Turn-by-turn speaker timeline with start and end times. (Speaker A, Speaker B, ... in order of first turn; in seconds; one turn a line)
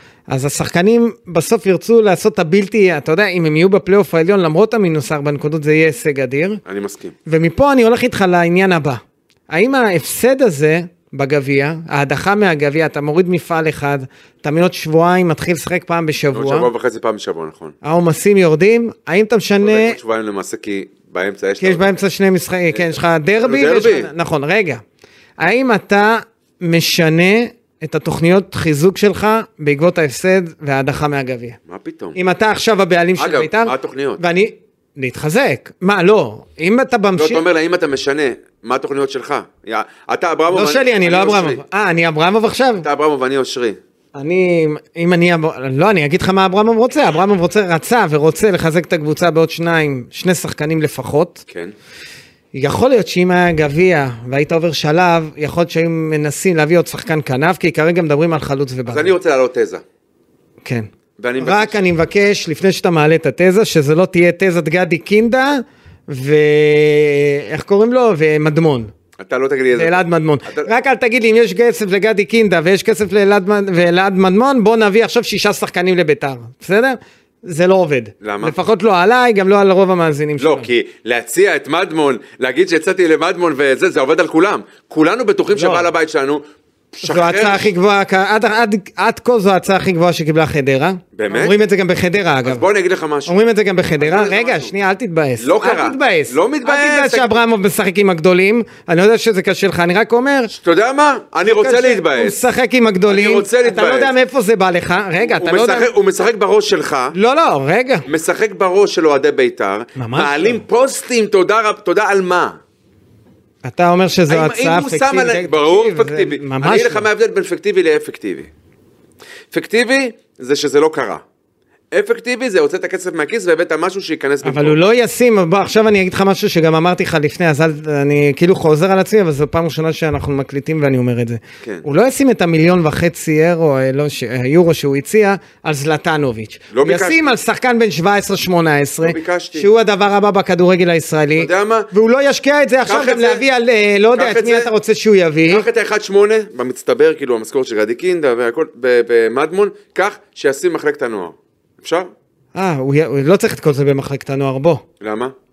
Speaker A: 0.3-6.6
Speaker B: 6.7-7.1
Speaker A: 7.2-16.7
Speaker B: 16.3-17.8
Speaker A: 17.8-20.0
Speaker B: 19.6-22.0
Speaker A: 21.6-24.8
Speaker B: 22.7-24.1
Speaker A: 25.4-31.6
Speaker B: 31.6-32.2
Speaker A: 32.1-37.4
Speaker B: 33.2-34.2
Speaker B: 37.1-41.6
Speaker A: 40.5-42.9
Speaker B: 42.8-43.8
Speaker A: 44.1-51.4
Speaker B: 51.5-51.7
Speaker A: 52.5-59.1
Speaker B: 58.9-59.8
Speaker B: 61.2-61.8
Speaker A: 61.4-68.9
Speaker B: 69.2-70.7
Speaker A: 69.7-80.7
Speaker B: 78.2-78.5
Speaker B: 80.4-87.7
Speaker A: 85.5-85.9
Speaker A: 87.0-92.6
Speaker B: 91.1-91.5
Speaker B: 92.4-93.3
Speaker A: 93.3-100.5
Speaker B: 94.0-94.7
Speaker B: 95.4-97.4
Speaker B: 100.5-102.5
Speaker A: 101.4-105.9
Speaker B: 103.1-104.1
Speaker B: 105.2-107.1
Speaker A: 107.1-108.1
Speaker B: 108.0-112.6
Speaker A: 110.0-110.6
Speaker A: 113.6-117.0
Speaker B: 114.3-118.5
Speaker B: 119.5-121.2
Speaker B: 121.9-124.8
Speaker A: 124.4-145.7
Speaker B: 136.7-137.3
Speaker B: 139.0-139.7
Speaker B: 141.4-141.9
Speaker B: 142.8-143.4
Speaker B: 144.1-144.7
Speaker B: 145.5-152.1
Speaker A: 152.5-154.8
Speaker B: 155.0-155.3